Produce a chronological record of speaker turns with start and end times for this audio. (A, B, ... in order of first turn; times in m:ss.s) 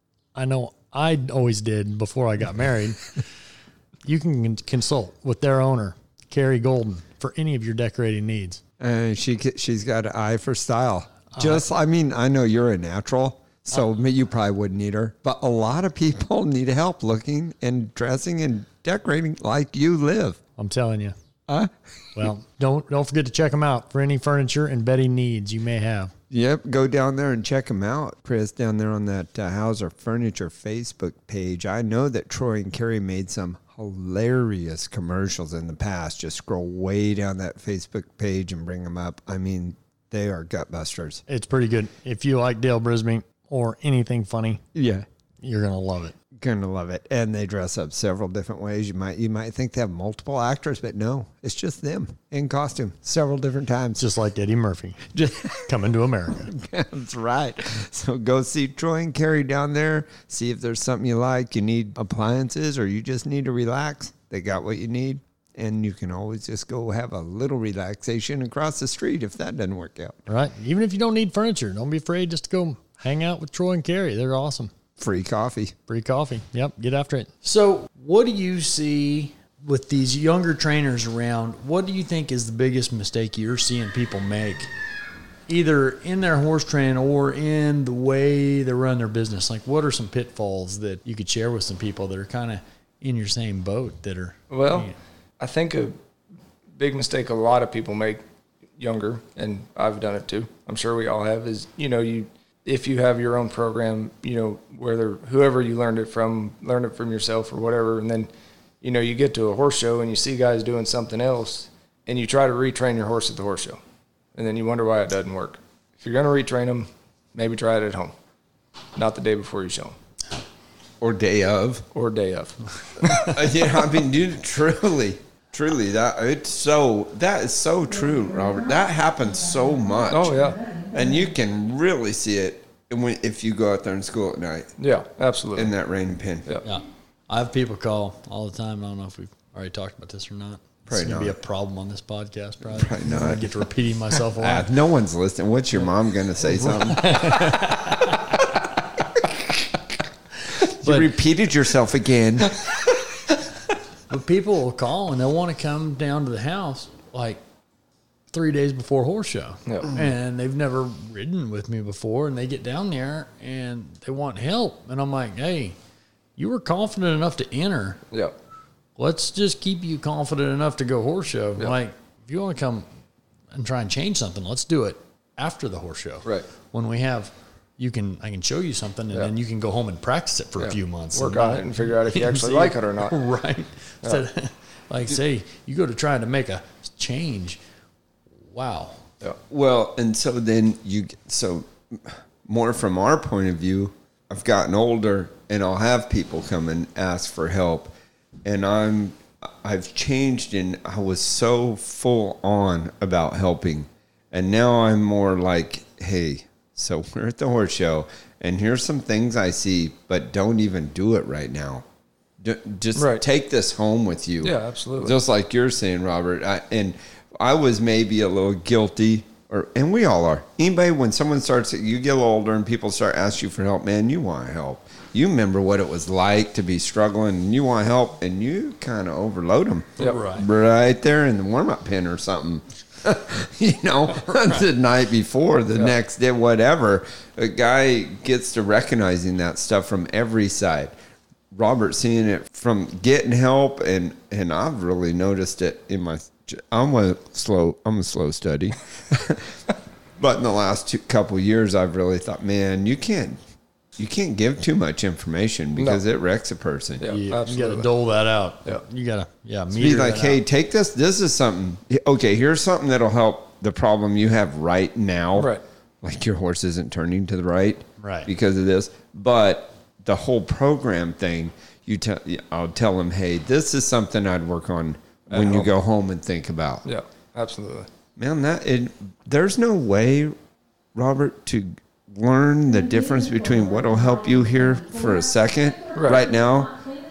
0:00.3-0:03.1 A
0:04.0-0:08.6 A
0:08.8-0:20.4 B
0:11.4-0:11.6 A
0:20.6-0:21.1 A
0:21.5-0:22.3 B
0:22.2-0:26.1 A
0:26.3-0:41.2 B
0:41.3-0:44.6 A
0:44.7-0:45.0 B
0:45.4-0:46.1 A
0:46.4-0:54.0 B
0:54.0-0:55.0 A
0:55.1-0:55.7 B
0:55.7-0:56.5 A
0:56.5-1:10.2 B
1:10.3-1:14.7 A
1:15.0-1:15.7 B
1:15.9-1:24.7 A
1:25.5-1:35.0 A
1:34.5-1:36.0 C
1:36.8-1:38.2 C
1:38.8-1:48.3 C
1:48.8-1:53.8 C
1:54.3-1:58.1 C
1:59.0-2:00.0 C
2:01.0-2:01.8 B
2:01.9-2:03.4 C
2:03.1-2:14.7 B
2:10.1-2:10.6 C
2:14.8-2:15.7 C
2:15.5-2:16.5 B
2:16.6-2:24.7 A
2:20.9-2:21.4 B
2:22.7-2:23.5 B
2:24.4-2:27.6 B
2:26.4-2:28.4 A
2:29.1-2:29.7 B
2:30.5-2:31.1 A
2:30.6-2:32.7 B
2:34.1-2:37.4 A
2:38.3-2:45.8 A
2:46.4-2:48.0 A
2:49.0-2:52.8 A
2:53.5-3:07.6 A
3:00.6-3:03.1 C
3:08.5-3:09.0 A
3:09.5-3:17.9 B
3:18.4-3:31.8 B
3:32.4-4:00.9 B
3:33.0-3:33.2 C
3:34.4-3:35.2 C
3:50.0-3:50.5 A
4:01.5-4:09.6 B
4:10.2-4:13.4 B
4:14.0-4:17.1 B
4:15.8-4:16.0 C
4:17.0-4:17.9 C
4:17.1-4:20.4 A
4:19.7-4:36.8 B
4:25.4-4:25.6 C
4:28.0-4:28.3 A
4:35.3-4:35.7 C
4:36.8-4:37.9 C
4:38.2-4:40.3 B
4:40.9-4:46.8 B
4:46.0-4:46.2 C